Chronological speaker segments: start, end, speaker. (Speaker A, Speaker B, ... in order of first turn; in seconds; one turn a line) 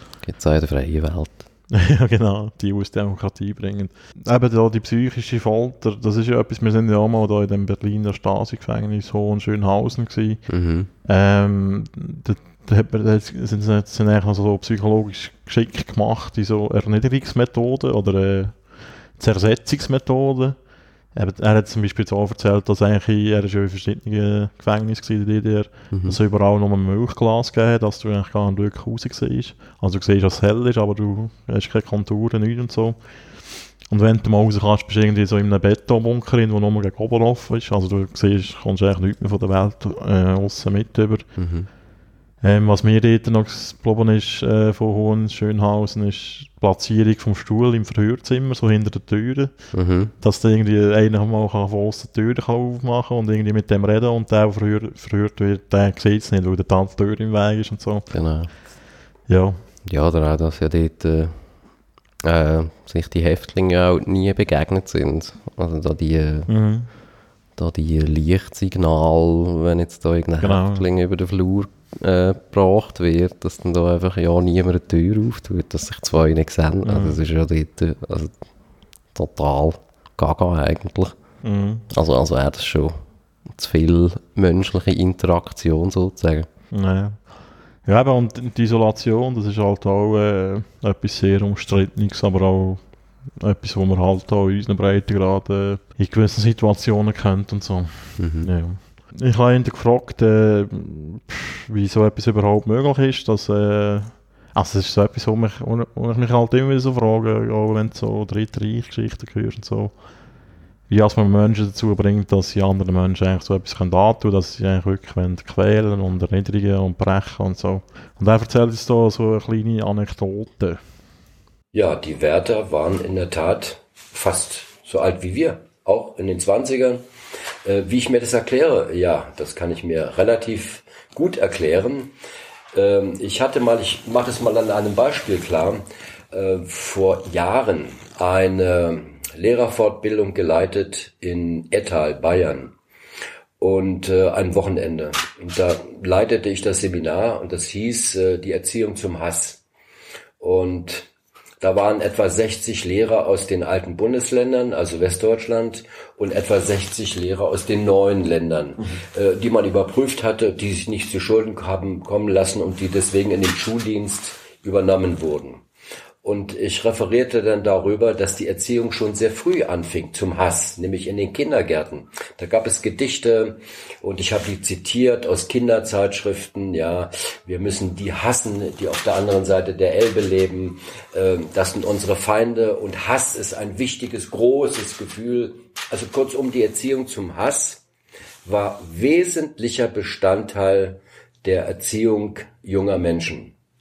Speaker A: 0.2-1.4
Speaker B: 1.7-10.5
Speaker A: 10.5-10.9
Speaker B: 11.1-33.0
Speaker A: 25.9-26.2
Speaker B: 33.8-41.3
Speaker A: 41.4-41.7
Speaker B: 42.4-49.6
Speaker A: 49.7-50.1
Speaker B: 50.2-58.1
Speaker A: 58.1-58.5
Speaker B: 59.3-59.6
Speaker A: 59.9-61.5
Speaker A: 62.2-66.5
Speaker B: 66.5-66.9
Speaker A: 67.6-78.3
Speaker B: 70.4-70.8
Speaker B: 76.8-77.2
Speaker A: 79.1-81.2
Speaker B: 81.4-81.8
Speaker A: 81.9-83.0
Speaker A: 83.5-86.5
Speaker B: 86.7-87.3
Speaker B: 87.8-92.8
Speaker B: 93.4-110.0
Speaker A: 98.2-98.5
Speaker B: 110.9-120.8
Speaker C: 121.7-127.1
Speaker C: 127.7-132.1
Speaker C: 132.7-142.8
Speaker C: 143.6-149.6
Speaker C: 150.4-151.1
Speaker C: 151.6-165.6
Speaker C: 166.2-187.8
Speaker C: 188.4-193.5